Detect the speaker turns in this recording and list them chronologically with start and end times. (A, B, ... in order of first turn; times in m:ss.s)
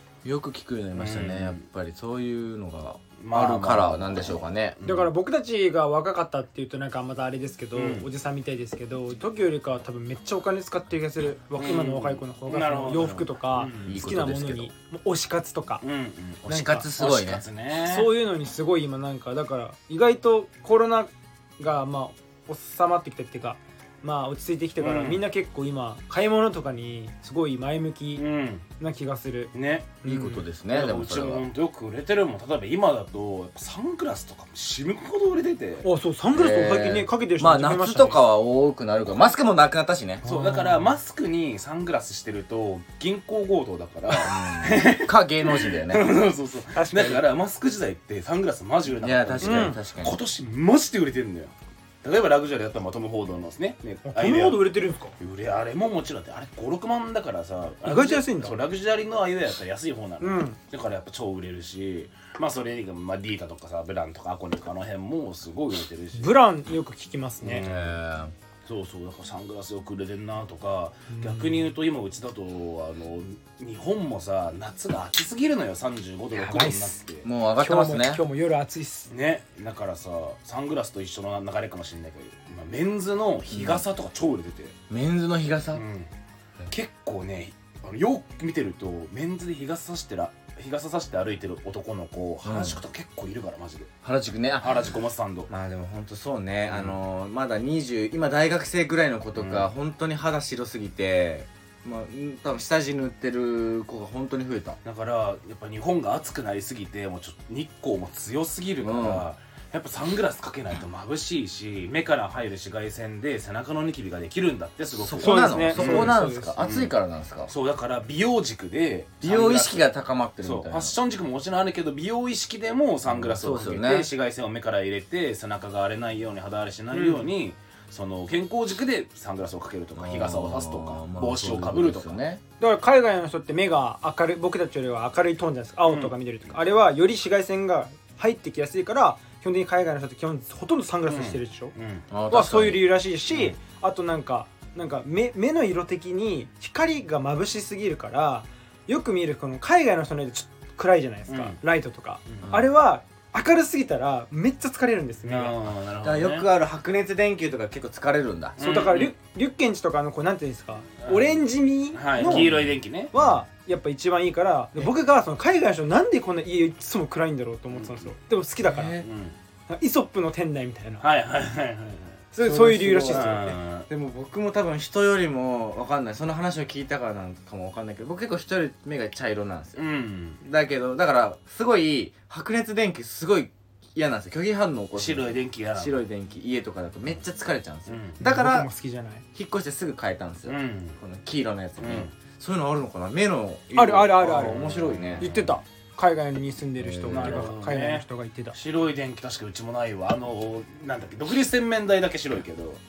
0:00.2-0:04.8 A
0:00.9-0:01.6 B
0:03.2-0:05.1 B
0:04.8-0:15.8 C
0:07.7-0:08.0 B
0:11.6-0:14.0 B
0:13.9-0:14.7 A
0:15.8-0:18.1 B
0:16.4-0:17.4 A
0:16.5-0:16.9 C
0:17.8-0:28.2 C
0:24.8-0:25.2 B
0:28.2-0:28.6 B
0:28.8-0:29.5 C
0:29.5-0:30.0 B
0:30.0-0:30.4 C
0:30.0-0:31.4 A
0:30.7-0:35.8 B
0:35.8-0:38.2 C
0:36.3-0:40.2 A
0:40.2-0:40.9 C
0:40.2-1:06.4 B
0:44.1-0:46.1 A
0:46.7-0:47.2 C
0:49.0-0:50.2 A
0:49.4-0:49.8 C
0:54.0-0:55.1 C
0:57.8-0:58.6 C
1:00.2-1:00.6 C
1:06.2-1:07.6 C
1:07.4-1:08.0 B
1:07.6-1:08.3 A
1:08.6-1:17.3 B
1:11.1-1:11.7 C
1:16.3-1:17.0 C
1:17.2-1:18.2 A
1:17.6-1:19.1 C
1:19.1-1:24.7 B
1:23.5-1:23.8 A
1:24.9-1:25.8 A
1:25.7-1:26.1 B
1:26.7-1:33.9 B
1:32.4-1:32.8 A
1:34.0-1:34.9 A
1:34.6-1:35.5 B
1:35.5-1:44.8 A
1:36.7-1:37.0 B
1:39.3-1:39.7 B
1:44.8-1:56.9 B
1:48.8-1:49.2 A
1:55.0-1:57.5 A
1:55.2-1:56.5 C
1:57.5-1:59.8 B
1:59.2-2:00.9 A
2:00.4-2:12.2 B
2:03.0-2:04.1 A
2:06.9-2:07.3 C
2:10.0-2:12.4 A
2:12.6-2:21.7 C
2:15.9-2:16.1 B
2:21.1-2:22.0 B
2:22.1-2:22.8 A
2:22.3-2:35.5 C
2:31.3-2:31.6 B
2:32.4-2:32.7 A
2:35.2-2:36.5 B
2:36.0-2:38.6 A
2:38.6-2:39.1 B
2:38.6-2:42.5 C
2:41.0-2:43.1 B
2:42.2-2:43.4 A
2:43.1-2:49.0 C
2:47.7-2:48.1 B
2:48.6-2:49.0 A
2:49.0-2:49.3 B
2:49.7-2:51.0 C
2:51.0-2:52.2 B
2:52.3-2:53.4 C
2:52.4-2:59.8 A
2:53.1-2:53.9 B
2:59.8-3:00.4 B
3:00.4-3:08.7 A
3:05.0-3:06.0 B
3:07.9-3:08.2 B
3:08.2-3:09.2 C
3:09.3-3:15.3 A
3:10.4-3:11.0 B
3:11.8-3:12.1 B
3:13.7-3:14.6 C
3:14.2-3:15.5 B
3:15.2-3:18.6 C
3:16.8-3:17.6 A
3:17.1-3:22.8 B